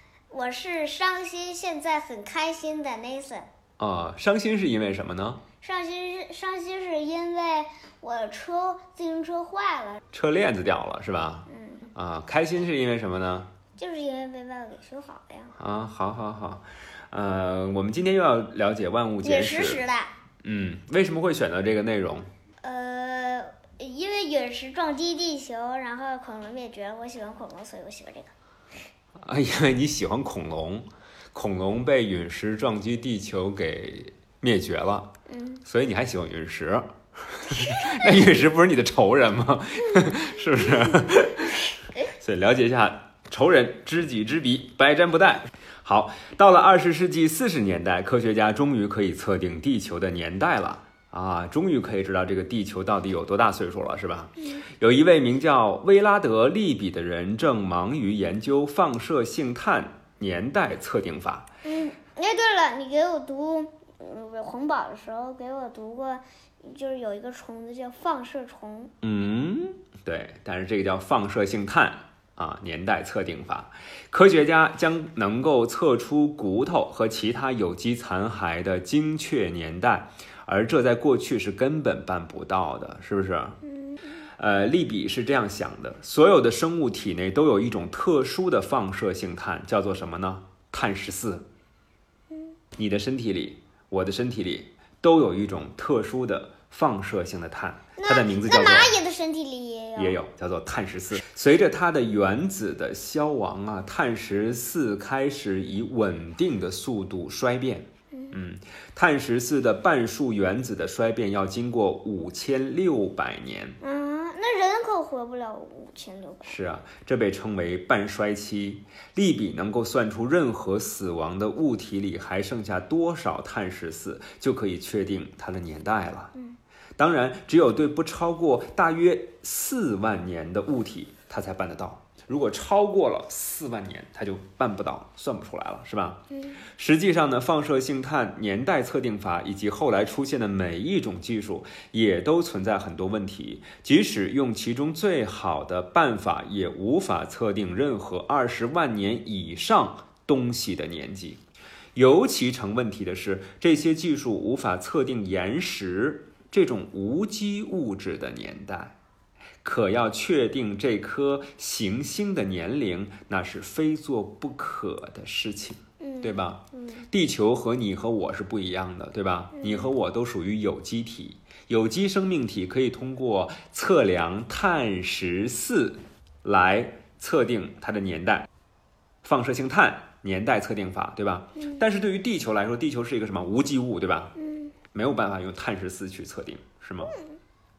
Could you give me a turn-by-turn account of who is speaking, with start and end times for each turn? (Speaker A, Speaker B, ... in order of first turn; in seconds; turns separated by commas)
Speaker A: 0.3-3.5, Speaker B: 3.8-5.4, Speaker A: 5.6-10.0, Speaker B: 10.1-13.5, Speaker A: 11.5-11.9, Speaker A: 13.8-15.5, Speaker B: 15.6-19.8, Speaker A: 19.2-20.1, Speaker B: 20.4-22.3, Speaker A: 22.6-28.3, Speaker B: 29.2-35.1, Speaker A: 35.3-35.6, Speaker B: 35.6-61.5, Speaker A: 61.6-68.9, Speaker B: 69.0-83.6, Speaker A: 83.6-84.0, Speaker B: 84.4-91.5, Speaker B: 92.8-99.0, Speaker A: 98.0-100.2, Speaker B: 100.0-113.8, Speaker A: 113.8-116.6, Speaker B: 116.4-126.3, Speaker B: 127.0-151.4, Speaker A: 136.3-136.6, Speaker B: 151.9-158.9, Speaker B: 159.6-178.5, Speaker A: 166.0-167.1, Speaker A: 169.6-169.9, Speaker B: 179.2-184.3, Speaker A: 181.6-181.8, Speaker A: 184.3-184.7, Speaker B: 184.9-187.1, Speaker A: 187.0-187.4